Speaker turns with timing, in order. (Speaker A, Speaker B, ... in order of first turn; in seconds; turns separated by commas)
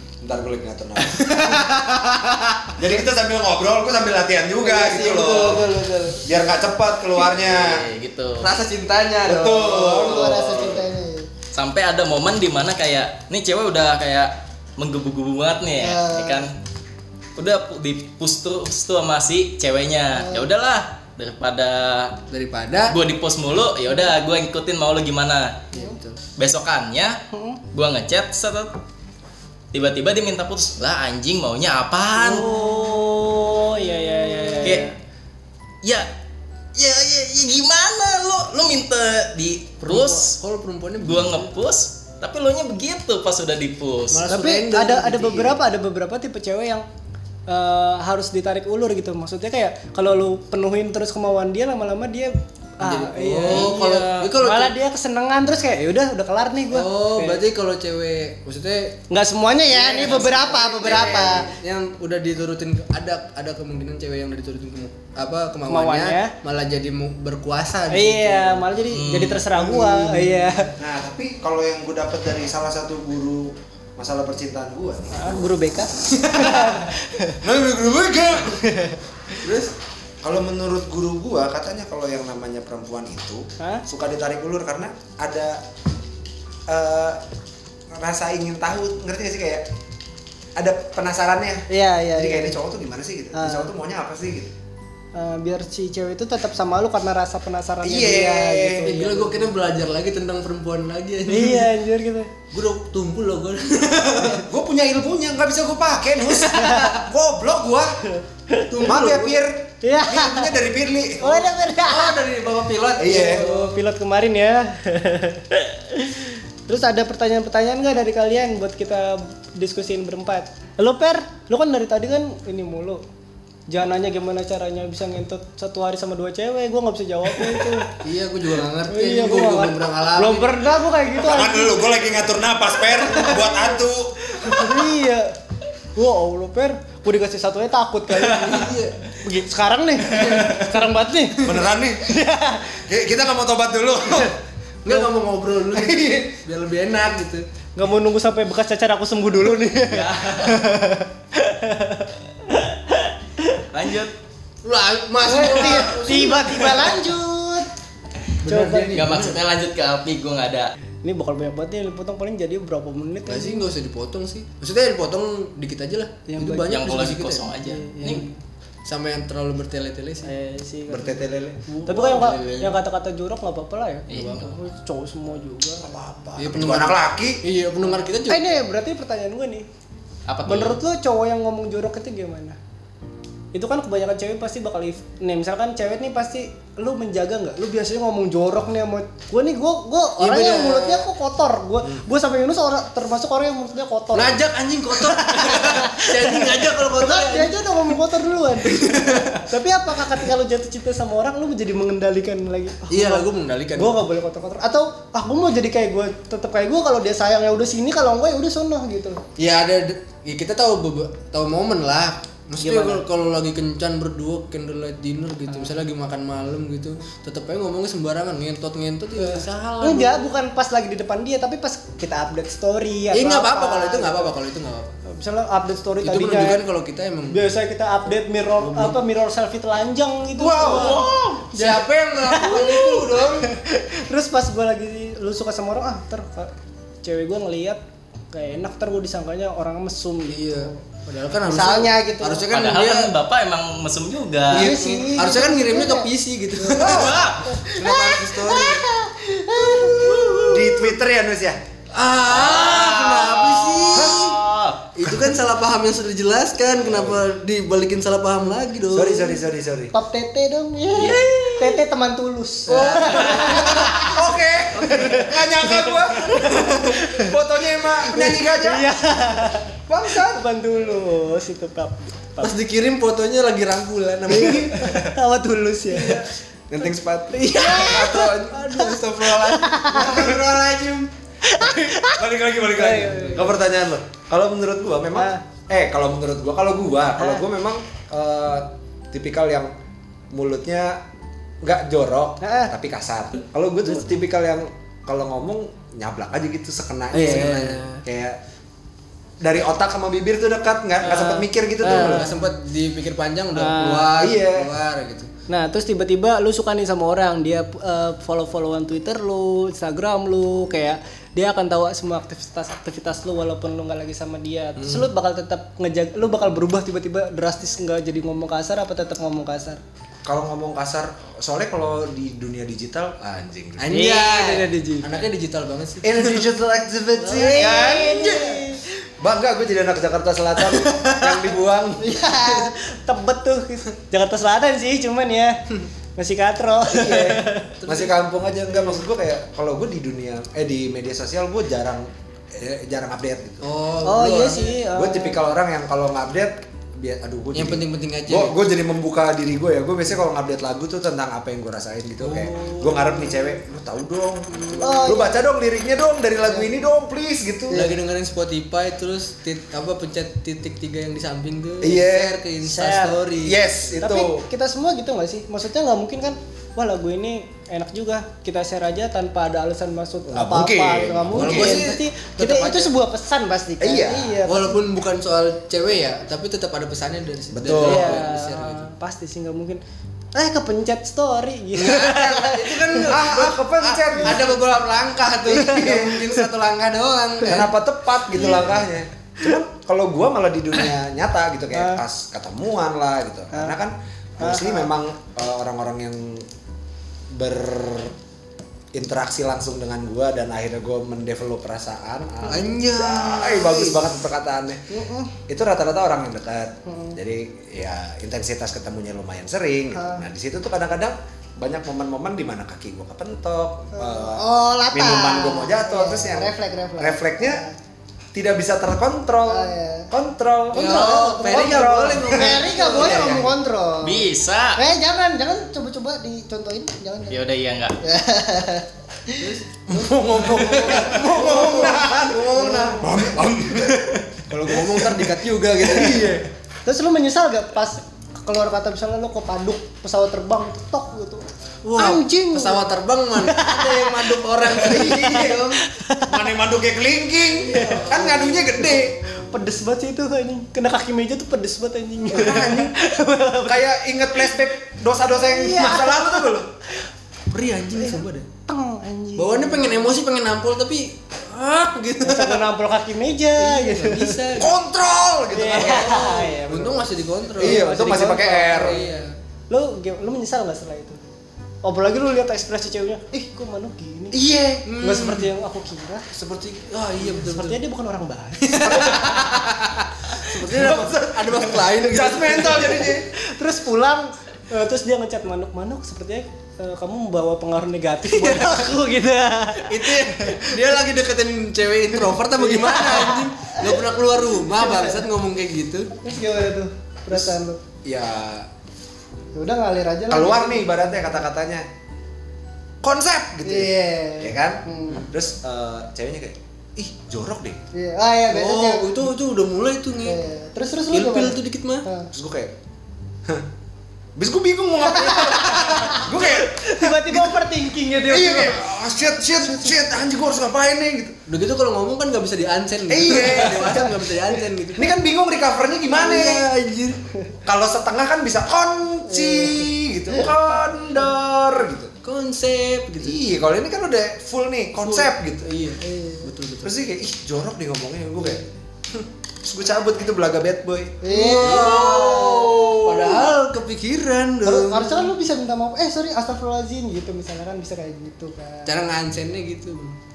Speaker A: 0.2-1.8, Speaker B: 1.1-2.7, Speaker A: 2.8-5.7, Speaker B: 4.6-6.3, Speaker A: 6.2-7.9, Speaker C: 7.1-8.5, Speaker B: 8.4-10.3, Speaker A: 9.2-10.6, Speaker D: 10.1-11.3, Speaker C: 10.2-10.8, Speaker C: 11.5-16.5, Speaker D: 15.8-16.4, Speaker C: 17.4-22.2, Speaker D: 20.1-20.5, Speaker B: 22.3-23.0, Speaker C: 22.9-25.6, Speaker B: 25.7-26.2, Speaker C: 26.4-27.2, Speaker D: 27.3-27.6, Speaker C: 27.7-28.7, Speaker C: 29.7-32.5, Speaker D: 32.2-34.9, Speaker C: 34.6-34.9, Speaker C: 36.7-40.4, Speaker B: 39.8-41.5, Speaker C: 41.0-44.2, Speaker B: 44.1-45.6, Speaker D: 44.3-46.8, Speaker D: 47.5-57.4, Speaker B: 52.8-54.7, Speaker B: 56.7-59.0, Speaker D: 59.1-61.5, Speaker B: 59.7-68.7, Speaker D: 65.7-66.3, Speaker D: 67.9-70.7, Speaker C: 68.9-69.5, Speaker B: 69.5-70.7, Speaker A: 70.8-75.4, Speaker D: 75.1-77.4, Speaker A: 77.4-78.6, Speaker D: 78.6-79.0, Speaker B: 79.4-79.7, Speaker A: 80.2-85.6, Speaker D: 83.6-83.8, Speaker A: 86.7-87.2, Speaker A: 87.9-89.7, Speaker A: 90.5-94.5, Speaker D: 91.7-92.6, Speaker D: 93.3-93.7, Speaker D: 95.1-99.5, Speaker A: 97.8-99.0, Speaker B: 98.8-101.7, Speaker D: 101.3-102.3, Speaker B: 102.5-104.5, Speaker A: 104.3-108.0, Speaker D: 106.3-106.9, Speaker D: 108.2-108.8, Speaker B: 108.7-109.4, Speaker A: 108.8-111.5, Speaker D: 109.8-110.5, Speaker D: 111.2-112.2, Speaker B: 111.8-113.8, Speaker A: 113.0-113.5, Speaker D: 113.0-123.0, Speaker D: 123.7-127.9, Speaker B: 128.0-130.6, Speaker D: 128.9-132.0, Speaker A: 131.1-134.7, Speaker D: 132.8-133.8, Speaker D: 134.4-135.3, Speaker D: 135.9-142.8, Speaker B: 138.1-139.0, Speaker B: 140.1-140.6, Speaker A: 141.4-142.0, Speaker A: 142.8-144.3, Speaker B: 144.8-147.4, Speaker D: 147.8-153.1, Speaker C: 149.9-150.6, Speaker C: 153.7-154.1, Speaker B: 154.6-157.0, Speaker D: 155.2-157.7, Speaker B: 158.4-159.4, Speaker D: 158.4-159.0, Speaker C: 158.9-160.7, Speaker D: 161.0-163.7, Speaker B: 163.2-167.5, Speaker D: 166.3-166.8, Speaker C: 166.6-168.2, Speaker D: 167.6-168.3, Speaker B: 168.8-170.3, Speaker D: 170.2-171.3, Speaker A: 170.9-171.6, Speaker B: 171.7-172.7, Speaker D: 171.8-175.9, Speaker C: 174.1-174.5, Speaker B: 174.1-174.5, Speaker A: 175.8-177.4, Speaker B: 176.4-178.5, Speaker D: 178.2-179.7, Speaker C: 180.3-180.8, Speaker D: 180.4-182.6, Speaker D: 183.5-209.2, Speaker B: 190.2-191.1, Speaker B: 194.1-197.9, Speaker B: 198.6-199.5, Speaker B: 202.9-204.0, Speaker B: 209.4-220.3, Speaker D: 212.6-213.0, Speaker D: 219.2-224.3, Speaker B: 223.1-224.9, Speaker D: 225.0-226.6, Speaker B: 226.0-227.4, Speaker D: 227.3-236.5, Speaker B: 228.6-229.0, Speaker B: 230.4-233.5, Speaker A: 230.5-231.4, Speaker D: 237.0-237.8, Speaker D: 238.3-240.8, Speaker B: 240.3-243.1, Speaker D: 241.5-242.5, Speaker C: 242.5-244.7, Speaker B: 244.5-248.8, Speaker D: 244.5-250.8, Speaker A: 246.8-247.2, Speaker C: 246.8-247.4, Speaker B: 250.1-250.4, Speaker C: 250.1-250.4, Speaker A: 250.5-251.6, Speaker B: 251.9-254.4, Speaker C: 252.3-254.8, Speaker A: 254.0-254.3, Speaker B: 254.9-259.3, Speaker A: 256.9-257.2, Speaker A: 258.9-259.9, Speaker D: 259.9-264.2, Speaker C: 260.9-261.8, Speaker B: 262.7-264.0, Speaker A: 262.8-268.9, Speaker C: 263.2-263.5, Speaker D: 264.8-267.3, Speaker B: 264.9-265.1, Speaker B: 266.4-266.7, Speaker D: 268.0-272.5, Speaker A: 269.9-270.4, Speaker B: 272.4-275.1, Speaker D: 274.3-276.2, Speaker B: 275.9-276.3, Speaker A: 276.7-278.6, Speaker D: 277.3-280.3, Speaker B: 277.7-281.1, Speaker A: 280.0-280.4, Speaker D: 281.4-282.2, Speaker A: 281.7-289.7, Speaker D: 282.7-283.6, Speaker B: 283.1-283.5, Speaker D: 285.1-285.4, Speaker D: 287.2-287.4, Speaker A: 290.3-291.0, Speaker A: 291.6-298.4, Speaker D: 292.4-292.7, Speaker B: 297.1-298.0, Speaker D: 297.1-298.0, Speaker A: 299.4-302.4, Speaker D: 301.0-302.5, Speaker B: 301.8-305.3, Speaker D: 303.5-304.2, Speaker A: 304.2-304.7, Speaker D: 305.5-319.8, Speaker B: 314.8-315.1, Speaker A: 320.2-323.9, Speaker B: 323.8-326.5, Speaker D: 323.9-325.1, Speaker A: 326.0-328.6, Speaker D: 327.2-328.8, Speaker B: 327.4-328.0, Speaker A: 329.2-332.1, Speaker D: 332.0-335.6, Speaker D: 336.1-337.8, Speaker A: 336.9-343.6, Speaker B: 337.8-338.2, Speaker B: 343.6-344.8, Speaker D: 344.0-345.4, Speaker A: 344.8-357.9, Speaker B: 347.5-348.6, Speaker B: 352.2-353.4, Speaker B: 354.5-355.1, Speaker D: 354.8-355.4, Speaker B: 357.7-363.7, Speaker A: 361.8-362.4, Speaker D: 362.6-363.2, Speaker A: 363.4-364.4, Speaker D: 364.0-374.9, Speaker A: 370.3-371.9, Speaker B: 371.3-372.9, Speaker A: 373.8-374.4, Speaker B: 374.4-378.9, Speaker A: 377.5-378.2, Speaker D: 377.8-379.8, Speaker D: 380.3-383.1, Speaker B: 381.7-387.7, Speaker A: 383.0-384.6, Speaker A: 385.5-386.2, Speaker D: 385.5-386.4, Speaker A: 387.4-396.4, Speaker D: 388.3-388.8, Speaker D: 391.7-392.0, Speaker D: 394.4-394.9, Speaker A: 397.3-398.1, Speaker A: 398.9-404.8, Speaker B: 402.4-404.2, Speaker D: 404.9-405.3, Speaker A: 405.5-417.6, Speaker D: 406.9-407.2, Speaker D: 409.9-410.2, Speaker D: 413.9-417.8, Speaker A: 418.3-423.5, Speaker D: 419.4-420.1, Speaker B: 420.7-423.5, Speaker D: 420.7-424.2, Speaker C: 424.0-424.8, Speaker D: 424.8-427.4, Speaker C: 427.3-428.0, Speaker D: 428.0-429.5, Speaker B: 429.4-433.0, Speaker A: 430.2-436.4, Speaker D: 430.4-433.1, Speaker B: 434.5-436.4, Speaker D: 436.0-436.2, Speaker D: 436.8-446.3, Speaker B: 441.8-445.8, Speaker A: 445.2-445.5, Speaker A: 446.2-449.1, Speaker D: 447.6-454.6, Speaker B: 447.7-448.6, Speaker A: 452.3-452.9, Speaker A: 453.6-456.7, Speaker D: 455.3-456.6, Speaker B: 457.5-458.5, Speaker D: 457.9-460.1, Speaker B: 459.4-462.7, Speaker D: 462.2-464.6, Speaker B: 463.6-464.8, Speaker A: 464.6-466.8, Speaker D: 465.5-467.0, Speaker B: 465.7-469.3, Speaker A: 467.6-469.0, Speaker D: 467.6-469.0, Speaker D: 469.7-471.2, Speaker D: 471.8-474.4, Speaker A: 474.3-474.9, Speaker B: 474.8-475.5, Speaker D: 475.0-476.2, Speaker B: 476.4-477.8, Speaker D: 477.2-479.3, Speaker B: 478.6-483.1, Speaker A: 478.8-479.6, Speaker A: 480.5-483.2, Speaker D: 482.6-490.7, Speaker B: 488.3-488.9, Speaker B: 489.8-496.1, Speaker D: 492.6-494.0, Speaker D: 494.6-495.3, Speaker D: 496.1-497.8, Speaker A: 498.0-498.7, Speaker D: 499.5-501.4, Speaker A: 500.3-501.9, Speaker A: 503.0-507.8, Speaker D: 503.6-505.2, Speaker D: 507.9-509.1, Speaker B: 508.5-510.4, Speaker D: 510.2-512.3, Speaker B: 511.1-512.0, Speaker A: 512.3-512.7, Speaker A: 514.4-517.6, Speaker D: 515.0-518.8, Speaker A: 518.2-521.4, Speaker B: 521.5-525.1, Speaker A: 523.1-524.2, Speaker D: 523.8-524.1, Speaker A: 524.9-526.7, Speaker B: 526.1-527.2, Speaker A: 527.6-532.1, Speaker D: 529.3-529.9, Speaker B: 532.2-533.4, Speaker A: 533.2-535.7, Speaker B: 535.0-537.0, Speaker D: 536.0-536.5, Speaker A: 536.8-538.6, Speaker A: 539.6-543.3, Speaker D: 541.2-543.0, Speaker B: 541.3-545.3, Speaker D: 544.6-549.0, Speaker B: 548.8-550.2